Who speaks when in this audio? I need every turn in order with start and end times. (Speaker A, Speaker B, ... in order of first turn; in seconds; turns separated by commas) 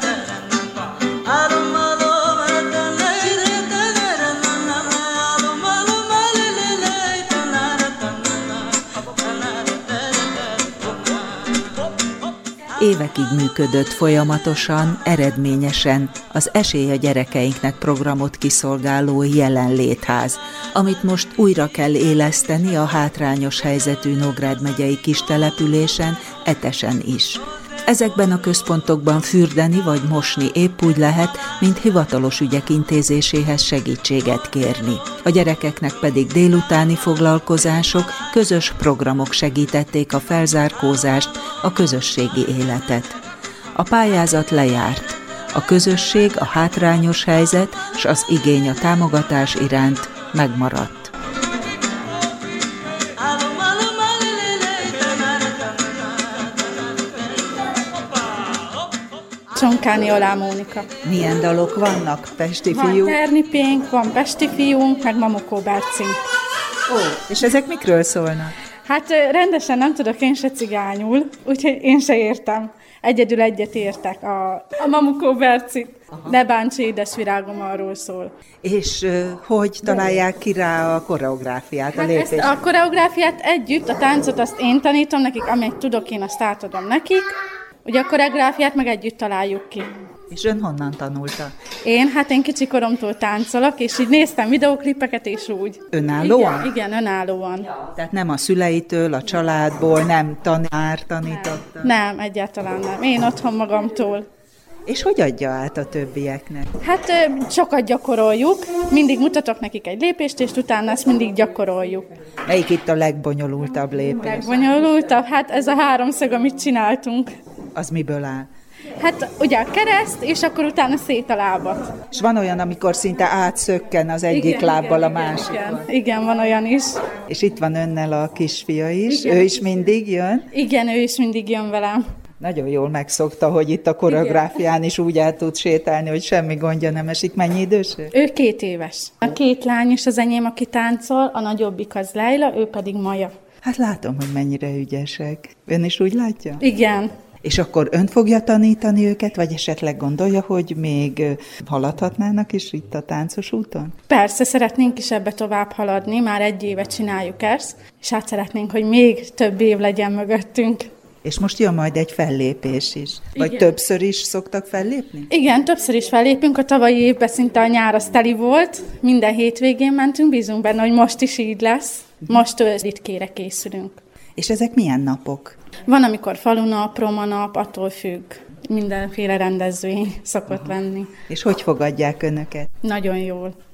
Speaker A: 12.8-43.2, Speaker A: 43.8-51.1, Speaker B: 59.5-60.9, Speaker A: 61.0-63.2, Speaker B: 62.7-66.2, Speaker A: 66.9-68.5, Speaker B: 68.9-78.3, Speaker A: 76.1-76.4, Speaker A: 78.6-82.5, Speaker B: 82.0-89.9, Speaker A: 90.3-91.5, Speaker B: 91.8-97.7, Speaker A: 95.9-96.7, Speaker A: 98.0-101.9, Speaker B: 101.2-104.3, Speaker A: 104.9-106.7, Speaker B: 106.8-112.1, Speaker A: 112.5-114.5, Speaker B: 114.2-117.3, Speaker A: 117.8-118.5, Speaker B: 119.0-121.9, Speaker A: 122.1-125.8, Speaker B: 124.3-127.0, Speaker A: 127.3-130.5, Speaker B: 129.1-129.5, Speaker B: 130.5-132.0, Speaker A: 132.4-138.1, Speaker B: 134.1-134.4, Speaker B: 138.1-143.3, Speaker A: 143.6-146.6, Speaker B: 146.6-147.2, Speaker A: 147.4-154.0, Speaker B: 154.1-160.9, Speaker A: 161.2-165.3, Speaker B: 163.4-163.7, Speaker B: 165.3-174.0, Speaker A: 174.4-175.6, Speaker B: 175.8-181.1, Speaker A: 181.3-182.7, Speaker B: 182.8-183.5